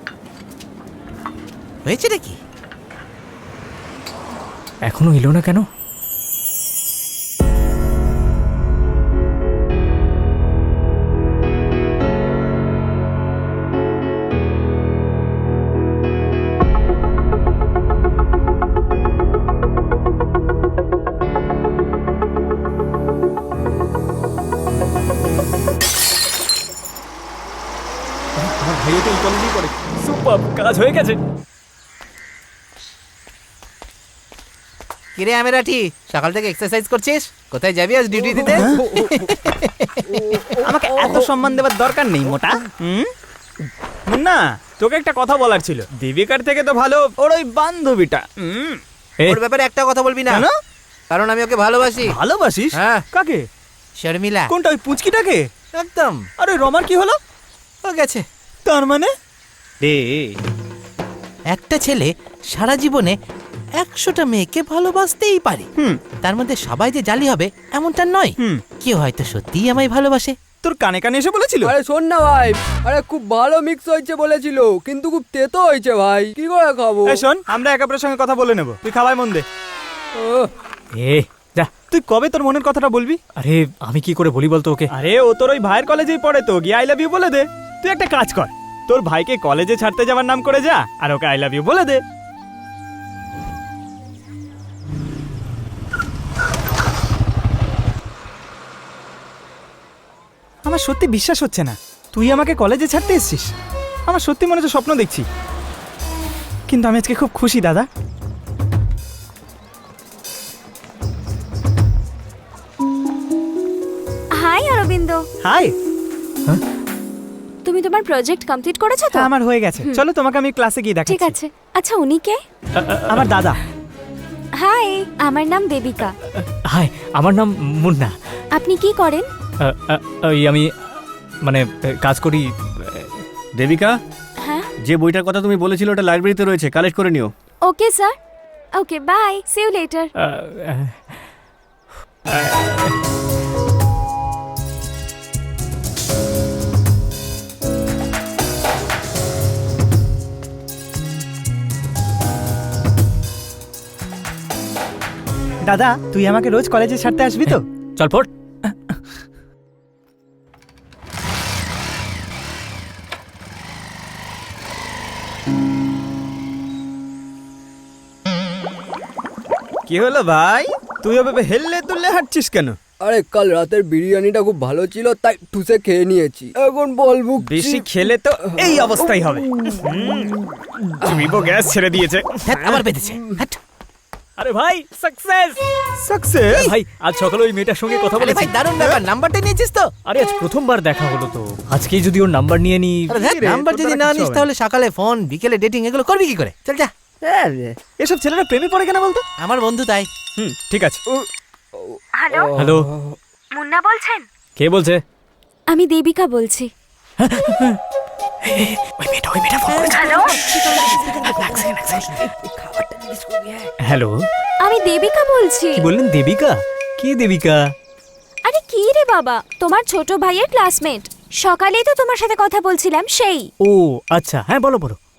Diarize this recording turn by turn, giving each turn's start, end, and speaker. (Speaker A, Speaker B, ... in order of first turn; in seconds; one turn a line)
Speaker A: 1.9-2.4
Speaker B: 4.8-5.7
Speaker B: 28.5-31.2
Speaker A: 35.1-38.8
Speaker C: 38.5-39.2
Speaker D: 40.3-41.2
Speaker C: 40.6-43.1
Speaker C: 44.1-48.8
Speaker A: 49.2-50.4
Speaker A: 51.1-52.1
Speaker C: 52.1-53.5
Speaker A: 52.8-53.0
Speaker A: 54.0-54.5
Speaker C: 54.5-55.5
Speaker A: 55.7-56.2
Speaker C: 56.4-57.2
Speaker A: 57.8-58.2
Speaker C: 58.6-59.1
Speaker A: 59.8-60.3
Speaker A: 61.5-63.1
Speaker A: 63.8-65.7
Speaker A: 66.2-70.4
Speaker C: 70.6-71.7
Speaker D: 71.6-77.2
Speaker C: 77.1-79.5
Speaker D: 80.2-80.5
Speaker B: 81.0-81.7
Speaker C: 81.9-83.2
Speaker B: 83.4-84.9
Speaker C: 84.9-92.0
Speaker C: 100.6-103.5
Speaker C: 104.1-105.2
Speaker C: 106.7-107.9
Speaker E: 114.4-115.2
Speaker C: 115.4-115.8
Speaker E: 117.6-120.0
Speaker C: 119.1-121.4
Speaker E: 121.1-122.4
Speaker B: 122.8-123.3
Speaker C: 123.1-123.6
Speaker E: 124.6-126.2
Speaker B: 126.7-128.1
Speaker E: 128.6-129.3
Speaker B: 129.6-130.7
Speaker B: 131.4-133.2
Speaker F: 133.6-134.0
Speaker E: 134.4-134.7
Speaker F: 134.8-137.3
Speaker E: 137.7-138.2
Speaker E: 138.8-140.1
Speaker B: 140.2-140.9
Speaker B: 142.3-142.9
Speaker C: 155.6-157.6
Speaker B: 157.5-158.3
Speaker C: 169.9-172.8
Speaker D: 173.0-177.9
Speaker C: 177.4-180.3
Speaker C: 181.0-182.2
Speaker A: 182.4-183.6
Speaker B: 184.4-185.6
Speaker C: 186.0-186.7
Speaker B: 186.6-188.5
Speaker A: 188.2-189.9
Speaker B: 190.1-193.1
Speaker C: 193.1-194.4
Speaker A: 193.1-196.9
Speaker C: 197.5-199.2
Speaker A: 199.4-200.1
Speaker C: 200.4-201.0
Speaker E: 202.2-202.5
Speaker B: 202.6-202.9
Speaker E: 203.6-204.2
Speaker B: 204.6-205.0
Speaker E: 205.7-206.7
Speaker B: 207.2-207.8
Speaker B: 208.5-212.2
Speaker E: 209.9-210.4
Speaker B: 213.8-214.1
Speaker E: 214.6-215.9
Speaker B: 215.8-217.6
Speaker E: 218.5-223.5
Speaker B: 223.6-225.0